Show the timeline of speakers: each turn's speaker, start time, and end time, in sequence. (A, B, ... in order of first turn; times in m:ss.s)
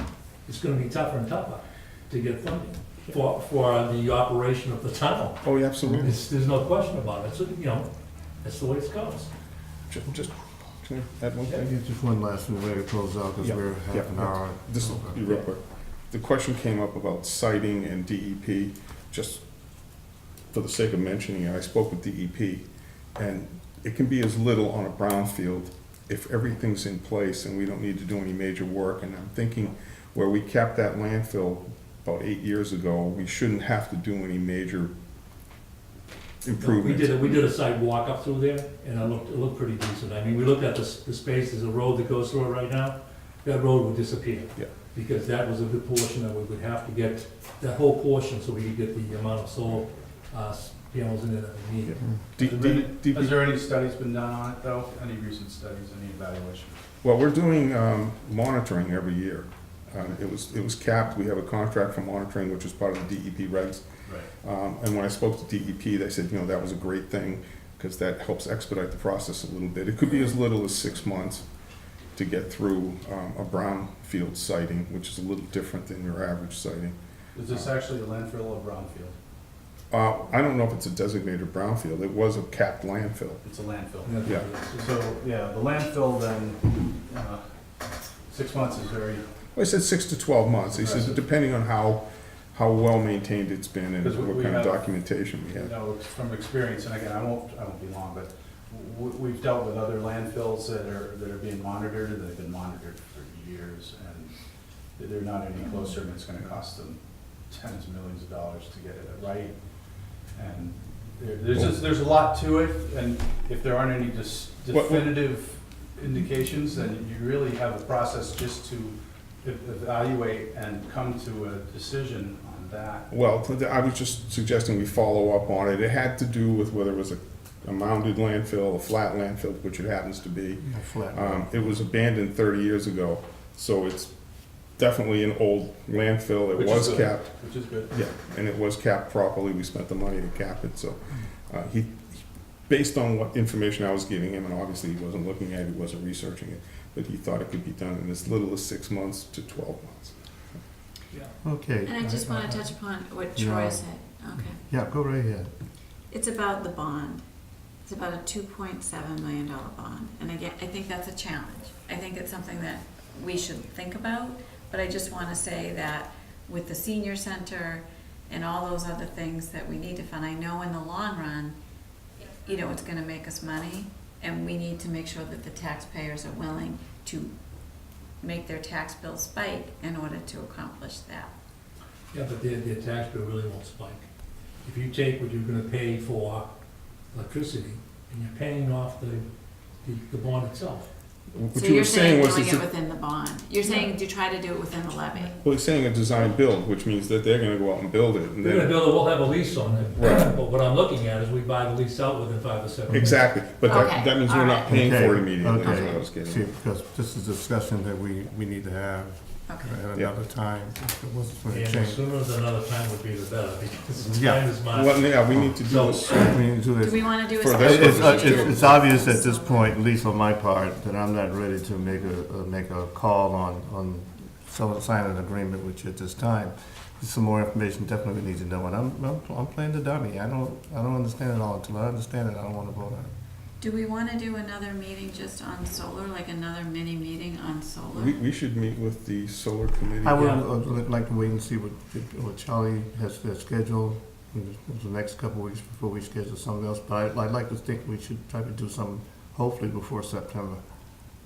0:00.4-0:07.9 A
0:05.4-0:06.1 B
0:05.8-0:06.1 C
0:08.4-0:09.3 A
0:09.9-0:11.7 B
0:11.5-0:15.2 C
0:13.4-0:19.4 B
0:20.5-0:22.6 B
0:23.2-0:34.9 B
0:36.4-0:37.3 B
0:36.6-0:52.0 A
0:51.9-0:53.4 B
0:52.4-0:56.8 D
0:57.0-1:03.9 B
1:04.0-1:04.3 D
1:04.4-1:11.4 B
1:12.2-1:17.0 B
1:17.3-1:19.1 D
1:19.9-1:23.4 B
1:23.4-1:27.4 D
1:24.0-1:24.9 A
1:28.3-1:29.2 D
1:29.5-1:35.7 B
1:30.6-1:31.2 D
1:34.0-1:34.8 D
1:35.5-1:44.3 D
1:45.0-1:49.5 D
1:50.3-2:03.0 D
1:54.7-1:55.2 B
2:03.1-2:14.1 B
2:10.6-2:11.7 C
2:14.8-2:17.4 B
2:16.5-2:17.9 D
2:17.9-2:30.2 B
2:31.4-2:32.7 C
2:31.8-2:34.6 E
2:33.4-2:33.8 C
2:34.4-2:35.5 C
2:36.1-2:37.2 E
2:37.8-2:51.6 E
2:52.4-2:57.3 E
2:58.2-3:01.3 E
3:02.1-3:04.0 A
3:04.6-3:06.5 A
3:07.1-3:09.3 A
3:09.8-3:10.9 A
3:11.3-3:12.7 B
3:11.5-3:15.4 E
3:13.6-3:13.9 A
3:15.4-3:18.9 B
3:18.4-3:23.3 A
3:19.9-3:20.3 B
3:22.9-3:26.5 B
3:23.6-3:25.0 E
3:24.7-3:32.0 C
3:25.6-3:26.0 E
3:29.5-3:29.8 E
3:31.5-3:36.2 A
3:34.1-3:34.6 C
3:34.7-3:36.4 B
3:35.3-3:35.6 C
3:36.1-3:53.1 C
3:36.8-3:39.7 E
3:37.4-3:38.7 B
3:53.6-3:58.2 E
3:57.9-4:00.4 B
4:00.0-4:10.6 C
4:00.1-4:00.4 A